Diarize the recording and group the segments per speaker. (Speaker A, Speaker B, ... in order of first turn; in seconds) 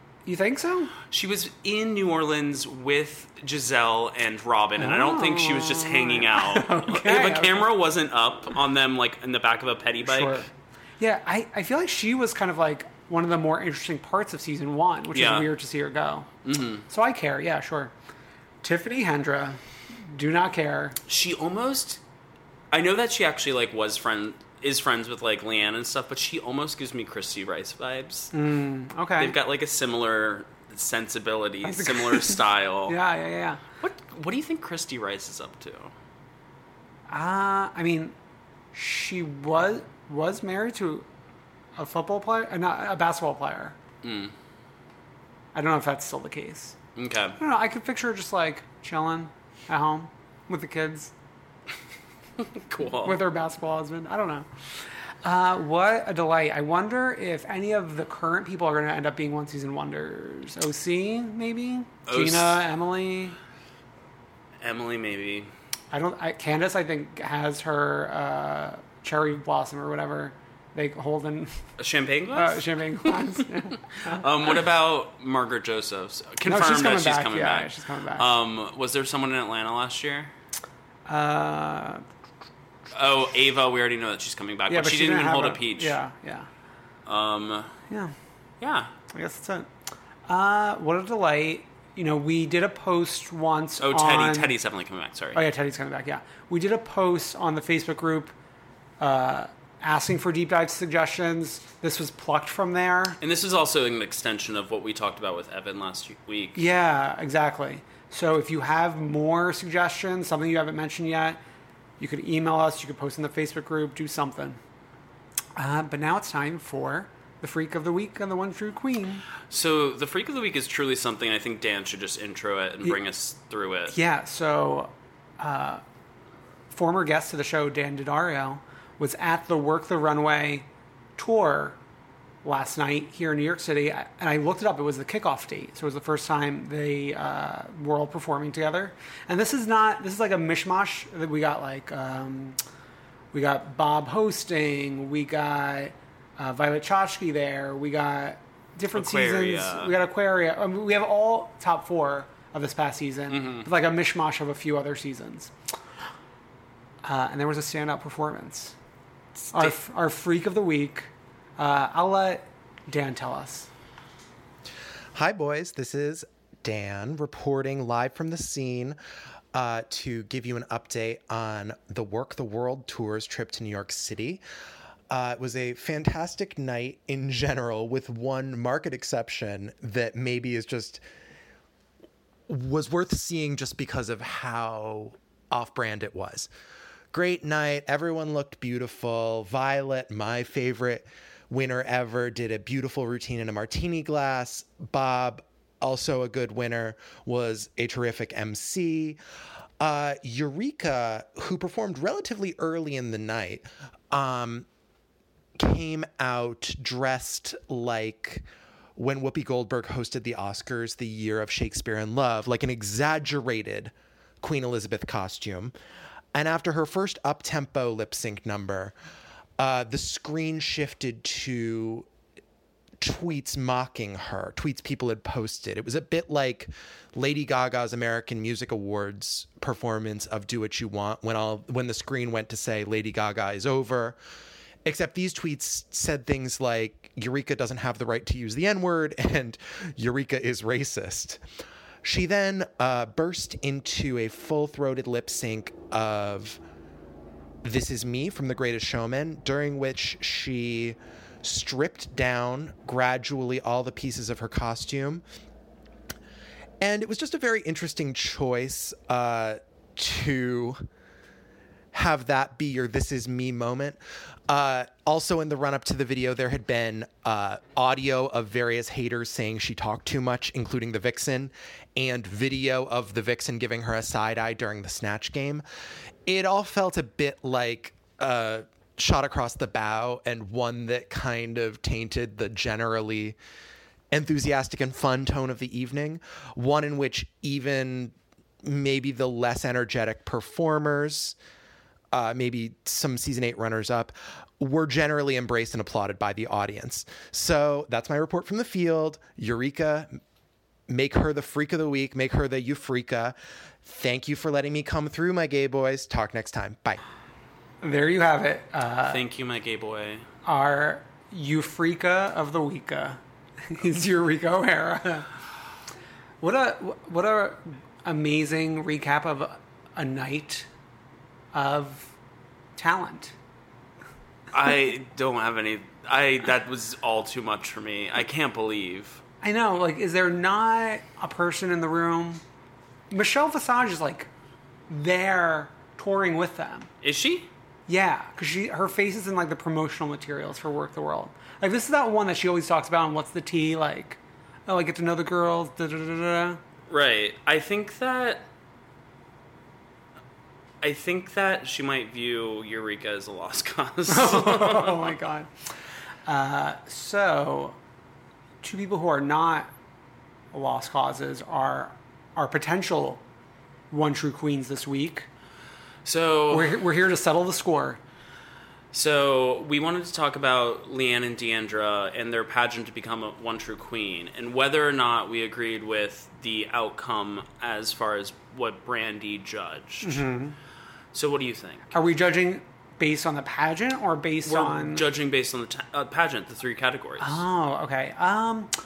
Speaker A: 0.3-0.9, 4.8-7.7, 10.1-10.5, 11.0-16.3, 16.9-17.9, 18.6-21.0, 28.3-29.4, 31.6-33.6, 37.1-38.1, 38.7-41.1, 41.8-43.8, 45.5-46.8, 47.4-51.1, 53.0-54.5, 55.2-63.4, 65.9-71.6, 72.3-74.2, 76.5-78.3, 81.1-82.0, 84.7-86.5, 89.1-89.7, 90.3-94.5, 95.3-98.3, 99.0-103.2, 106.5-111.4, 112.0-114.6, 115.6-119.2, 123.9-125.8, 126.7-131.8, 132.4-142.6, 143.3-155.5, 157.0-158.8, 159.5-163.7, 307.8-309.2, 310.4-315.3, 316.4-320.7, 321.5-322.1, 322.8-323.4, 329.4-332.4, 333.1-334.3, 334.9-336.9, 337.9-346.6, 354.1-355.5, 356.3-357.8, 358.6-359.7, 360.5-363.2, 363.9-365.3, 366.5-368.0, 380.0-380.6, 381.9-385.1, 387.2-388.7
Speaker B: 1.1-10.4, 15.1-15.5, 16.4-16.9, 21.1-22.0, 22.7-28.3, 29.2-33.0, 33.8-35.9, 44.0-44.3, 47.0-47.4, 52.4-53.2, 62.1-62.6, 64.6-65.5, 71.8-73.3, 74.1-80.3, 82.9-86.0, 87.1-87.7, 88.6-88.9, 93.8-95.4, 103.2-106.6, 119.5-124.0, 148.9-149.9, 153.3-153.7, 309.1-310.2, 324.5-329.2, 337.0-337.5, 346.9-348.5, 350.8-355.1, 366.1-366.8, 368.9-380.3, 381.1-381.9, 384.5-387.4
Speaker C: 165.2-169.0, 169.5-174.4, 175.1-181.0, 182.5-186.5, 187.1-199.2, 199.8-204.7, 205.6-208.4, 209.0-215.7, 216.3-218.9, 219.6-222.1, 223.0-234.2, 234.8-241.4, 242.0-246.6, 247.6-255.2, 256.8-260.8, 261.9-275.6, 276.3-283.4, 284.1-291.4, 292.1-300.2, 300.9-307.0